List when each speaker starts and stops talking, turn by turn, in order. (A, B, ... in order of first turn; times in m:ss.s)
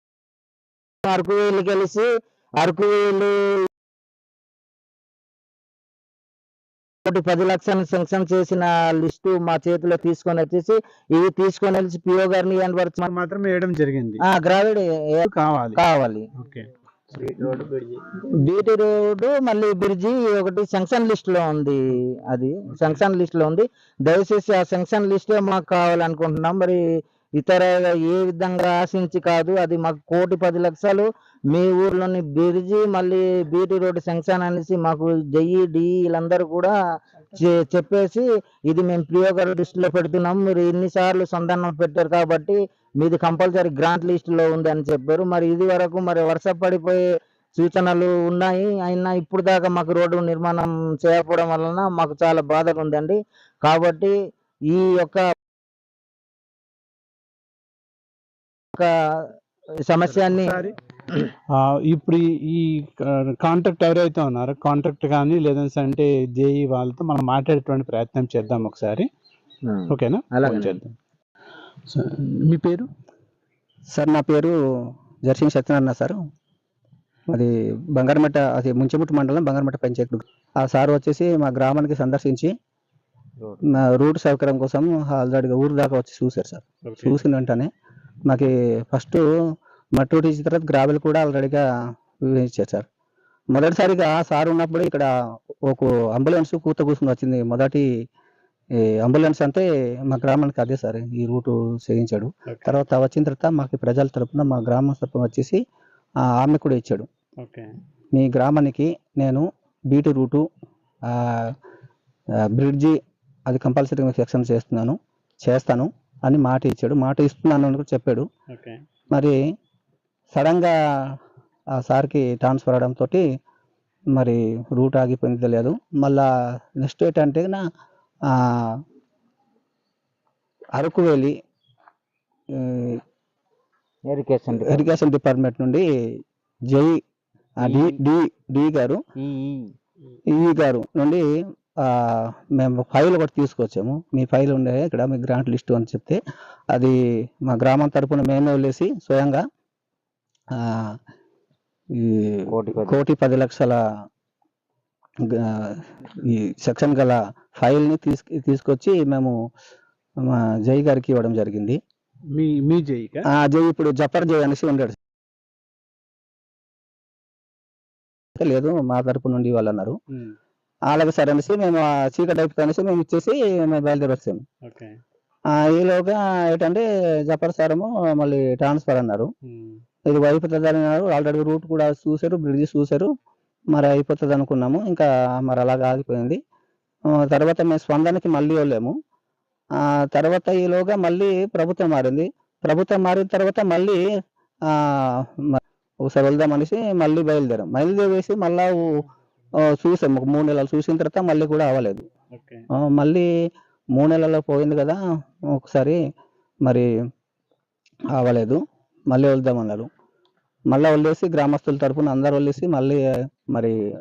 0:01.0-0:03.6 A
0:07.0-0:13.0 A
0:13.0-0:14.2 B
0:14.2-0:16.3 A
0:15.3-0:15.8 B
0:16.4-0:18.0 B
0:18.4-0:26.8 A
0:27.4-0:36.7 A
0:37.3-0:47.0 A
0:47.6-0:54.2 A
0:54.7-0:55.2 A
0:59.9-1:01.3 A
1:00.2-1:00.8 B
1:01.5-1:09.1 B
1:09.6-1:10.8 A
1:09.9-1:10.9 B
1:11.9-1:12.9 B
1:13.9-1:14.6 C
1:15.3-1:16.2 C
1:17.3-1:22.5 C
1:23.7-1:27.7 C
1:26.9-1:27.2 B
1:28.3-1:29.2 C
1:30.0-1:31.6 C
1:32.3-1:32.9 C
1:33.5-1:35.1 C
1:35.7-1:37.9 C
1:38.8-1:45.6 C
1:42.5-1:42.7 B
1:46.4-1:47.1 C
1:47.4-1:47.7 B
1:48.2-1:50.5 C
1:51.1-1:51.4 C
1:52.5-1:53.0 C
1:53.5-1:58.3 C
1:58.5-1:58.8 B
1:59.1-1:59.4 C
2:00.3-2:01.1 C
2:01.8-2:03.2 C
2:04.2-2:06.3 C
2:06.8-2:07.6 C
2:08.3-2:08.7 C
2:10.8-2:11.3 C
2:12.6-2:13.0 C
2:14.1-2:14.9 A
2:14.6-2:15.8 C
2:16.7-2:17.0 C
2:17.6-2:19.0 C
2:17.6-2:18.0 A
2:19.2-2:19.7 A
2:20.3-2:21.2 C
2:21.8-2:26.2 C
2:27.5-2:29.4 C
2:30.6-2:30.9 C
2:32.0-2:33.8 C
2:32.6-2:33.0 A
2:35.4-2:39.4 C
2:40.2-2:41.8 C
2:42.4-2:43.3 B
2:43.3-2:45.0 C
2:48.4-2:50.0 C
2:50.9-2:54.4 C
2:54.6-2:55.0 B
2:55.5-2:59.3 C
2:59.5-2:59.8 B
3:00.1-3:03.1 C
3:03.7-3:06.4 C
3:07.2-3:09.0 C
3:09.8-3:14.0 C
3:14.7-3:18.8 C
3:19.7-3:22.1 C
3:22.3-3:22.6 B
3:22.8-3:23.3 C
3:24.0-3:25.0 C
3:25.5-3:26.0 C
3:28.2-3:28.6 C
3:29.1-3:29.9 C
3:30.7-3:33.0 C